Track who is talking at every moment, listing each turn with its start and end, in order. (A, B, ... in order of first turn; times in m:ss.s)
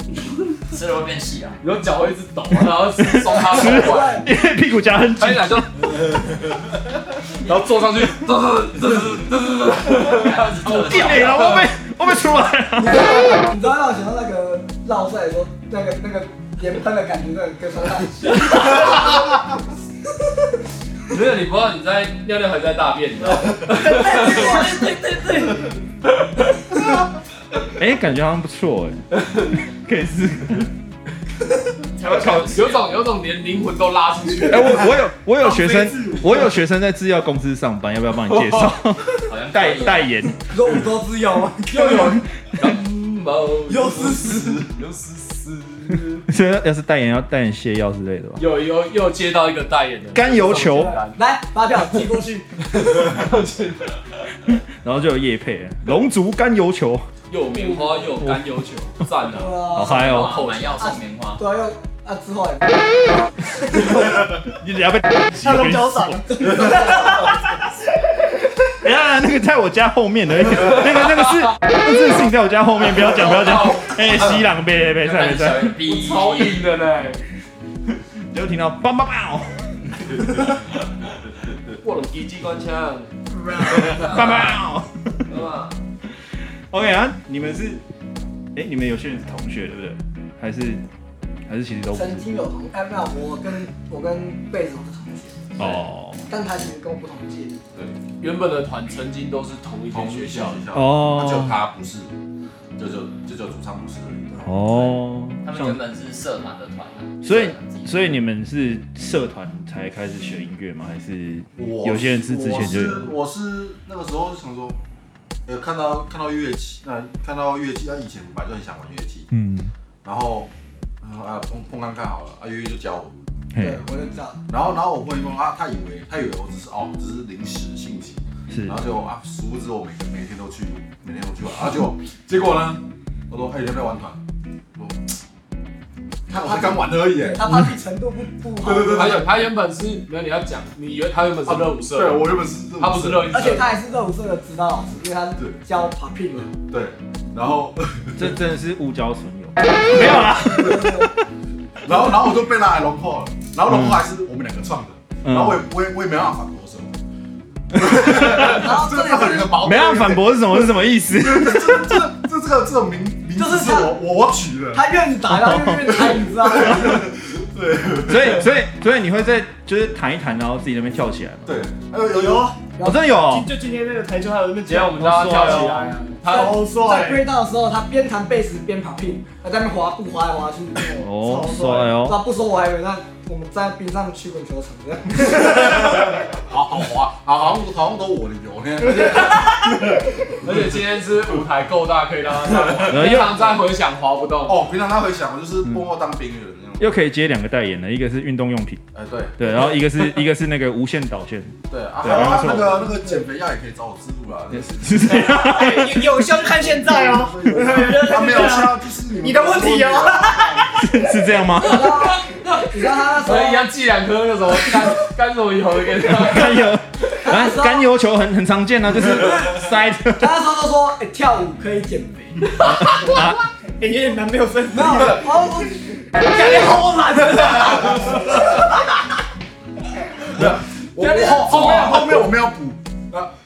0:00.7-0:01.6 A
0:01.6-0:04.2 B
0:03.0-0:06.0 C
0:03.5-0:04.2 D
0:05.2-0:06.0 B
0:07.4-0:11.7 B
0:09.9-0:11.6 A
0:10.8-0:13.2 C
0:12.8-0:19.1 D
0:21.1-0:25.5 B
0:23.9-0:24.7 E
0:23.9-0:24.9 D
0:27.7-0:29.1 C
0:29.7-0:30.7 C
0:32.0-0:32.8 A
0:32.1-0:34.9 B
0:34.4-0:40.4 C
0:35.4-0:36.4 F
0:38.4-0:38.7 B
0:39.2-0:40.1 A
0:40.5-0:42.2 D
0:41.7-0:46.2 B
0:43.7-0:44.6 D
0:44.3-0:44.6 F
0:46.3-0:48.4 C
0:48.4-0:51.2 B
0:50.1-0:51.0 C
0:51.1-0:52.5 D
0:52.7-0:53.9 B
0:54.4-0:57.1 C
0:57.3-1:00.9 B
0:57.6-0:57.9 D
0:59.2-1:00.1 D
0:59.7-1:00.4 C
1:00.0-1:01.4 A
1:00.8-1:02.8 D
1:03.9-1:07.1 C
1:05.4-1:07.2 E
1:08.7-1:15.8 C
1:13.2-1:14.4 A
1:15.0-1:16.6 A
1:15.8-1:17.2 B
1:18.3-1:20.6 C
1:21.8-1:23.1 B
1:23.6-1:25.2 C
1:23.7-1:24.5 B
1:24.0-1:24.4 A
1:25.3-1:25.7 B
1:26.7-1:27.8 C
1:28.5-1:30.8 C
1:31.5-1:32.3 C
1:31.9-1:35.6 D
1:35.6-1:36.2 C
1:36.3-1:37.5 D
1:37.7-1:38.0 F
1:38.2-1:40.6 B
1:39.9-1:42.1 F
1:40.7-1:41.6 C
1:42.8-1:45.0 F
1:44.4-1:45.8 C
1:45.4-1:48.2 A
1:47.2-1:53.2 C
1:51.6-1:54.8 F
1:55.4-1:59.3 F
1:59.3-1:59.7 C
2:00.0-2:00.5 F
2:01.0-2:03.1 F
2:03.5-2:03.8 C
2:03.6-2:04.4 D
2:04.5-2:14.2 F
2:08.5-2:08.8 C
2:16.3-2:17.6 F
2:16.3-2:19.3 D
2:18.6-2:19.3 F
2:18.6-2:23.7 B
2:21.4-2:23.7 F
2:23.3-2:26.5 D
2:26.5-2:28.3 F
2:28.2-2:31.2 C
2:29.9-2:30.9 F
2:31.8-2:36.9 F
2:33.6-2:34.0 C
2:35.2-2:35.6 C
2:37.7-2:44.8 F
2:37.8-2:38.6 C
2:38.2-2:39.5 D
2:39.6-2:42.1 C
2:43.4-2:44.0 D
2:44.7-2:47.0 D
2:45.2-2:47.0 C
2:46.0-2:48.4 F
2:48.0-2:51.6 C
2:51.4-2:52.6 F
2:52.1-2:52.6 E
2:52.8-2:53.0 D
2:52.8-2:53.5 C
2:53.2-2:57.3 E
2:54.6-2:56.6 B
2:54.9-2:55.8 C
2:56.3-3:00.9 D
3:00.9-3:02.0 E
3:01.0-3:02.2 C
3:02.0-3:05.9 D
3:06.3-3:10.8 F
3:10.4-3:14.6 B
3:12.4-3:13.2 F
3:12.9-3:13.5 C
3:14.4-3:16.9 F
3:16.8-3:18.8 C
3:18.9-3:19.7 F
3:19.4-3:22.9 C
3:21.7-3:25.4 F
3:24.5-3:26.3 C
3:25.1-3:30.9 E
3:26.3-3:30.7 F
3:30.8-3:32.1 C
3:31.6-3:33.7 D
3:33.2-3:36.8 B
3:36.0-3:40.4 C
3:37.2-3:37.9 D
3:39.2-3:39.6 D
3:40.2-3:42.5 D
3:42.6-3:43.4 C
3:43.8-3:45.3 E
3:44.7-3:48.4 D
3:46.3-3:48.3 E
3:50.3-3:53.3 F
3:51.0-3:52.0 B
3:51.7-3:52.0 E